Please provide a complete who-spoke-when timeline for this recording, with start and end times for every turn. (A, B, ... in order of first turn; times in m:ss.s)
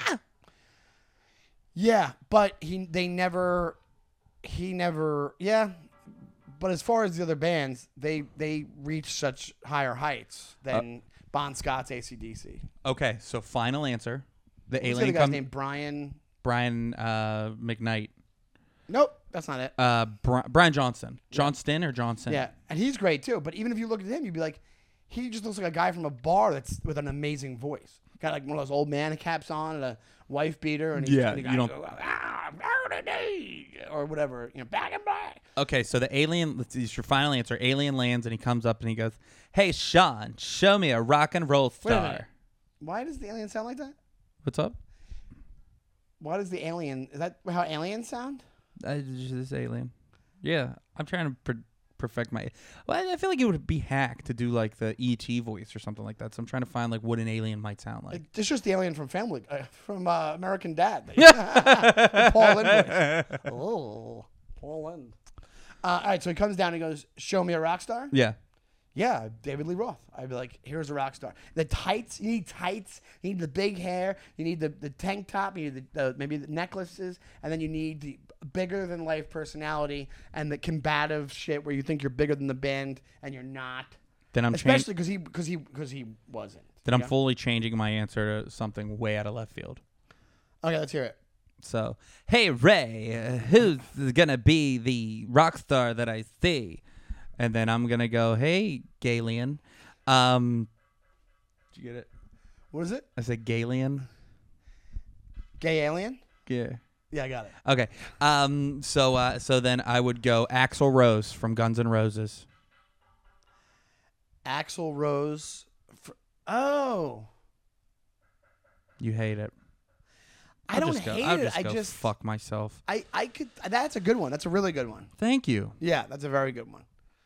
0:01.7-0:03.8 A
0:04.4-0:05.8 A
0:06.5-0:12.6 A
0:12.8-0:15.4 B
0:14.8-0:16.2 A
0:16.4-0:18.1 B
0:18.9-0:19.7 A
0:19.8-0:22.4 B
0:22.3-0:35.4 A
0:31.0-0:31.7 B
0:35.6-0:42.3 B
0:41.8-0:42.2 A
0:42.8-0:43.9 A
0:44.4-0:44.8 B
0:46.2-0:48.4 A
0:48.8-0:49.9 B
0:50.4-0:58.2 B
0:58.1-1:05.1 A
1:01.2-1:03.5 B
1:05.8-1:08.1 A
1:08.1-1:08.4 B
1:08.9-1:23.9 A
1:24.3-1:24.8 B
1:24.5-1:27.1 A
1:26.8-1:29.8 B
1:30.6-1:31.2 A
1:31.6-1:36.8 B
1:37.4-1:40.7 B
1:41.7-1:42.1 B
1:42.7-1:43.0 A
1:43.2-1:44.0 B
1:45.6-1:46.2 A
1:46.4-1:46.8 B
1:47.1-1:47.5 A
1:47.6-1:52.4 B
1:54.4-1:57.3 A
1:59.0-1:59.5 B
2:00.7-2:02.0 A
2:00.7-2:02.8 B
2:02.8-2:05.1 A
2:05.2-2:05.8 B
2:05.8-2:06.8 A